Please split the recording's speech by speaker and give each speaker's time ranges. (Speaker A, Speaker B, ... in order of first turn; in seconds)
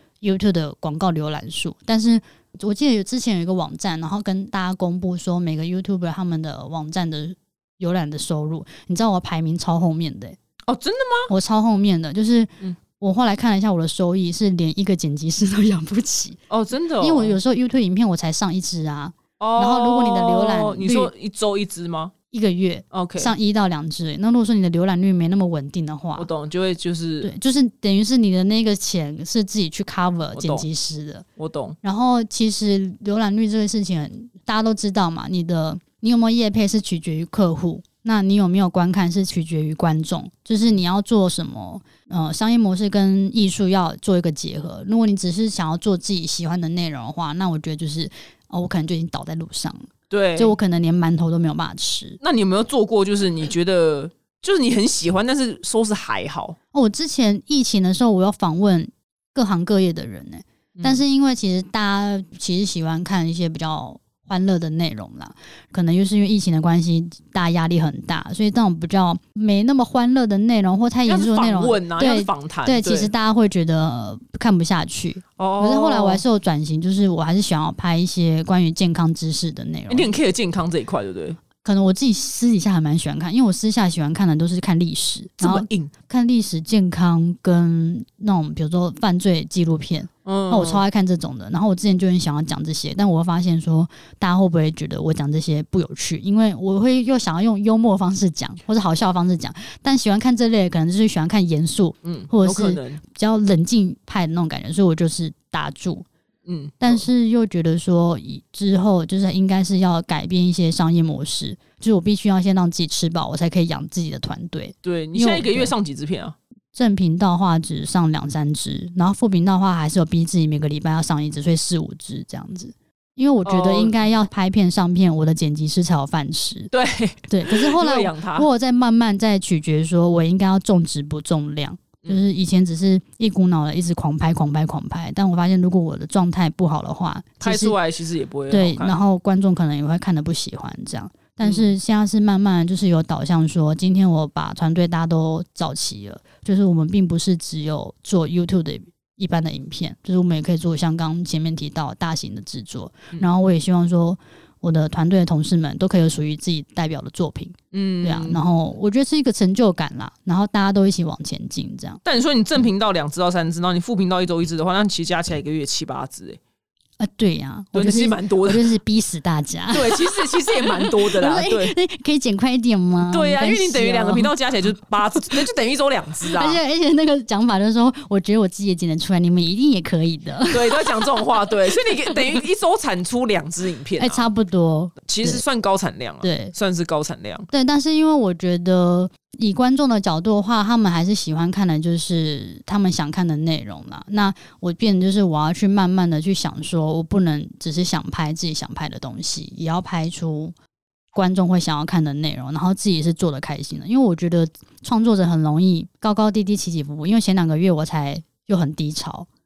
Speaker A: 0.2-10.4, 11.3-16.4, 17.0-21.1, 22.3-26.3, 27.2-31.2, 31.8-52.2, 56.7-80.1, 81.6-106.1, 106.8-115.7, 116.7-126.7, 127.3-137.8, 138.5-162.0, 167.0-174.3, 176.3-182.4, 184.0-185.4, 186.2-186.5, 187.5-200.5, 201.1-209.3
Speaker B: 10.7-11.3, 16.5-17.4, 19.4-22.1, 22.9-23.3, 26.2-27.3, 30.3-30.7, 31.4-31.8, 50.1-50.6, 52.2-56.6, 71.0-73.1, 75.4-76.2, 79.9-81.4, 85.4-85.9, 90.2-90.8, 102.0-103.0, 106.5-107.0, 114.8-116.3, 123.4-124.0, 126.7-128.5, 137.4-138.9, 141.4-141.7, 157.7-158.4, 162.0-166.4, 167.7-168.7, 169.7-171.7, 173.1-176.6, 180.5-184.2, 185.1-187.5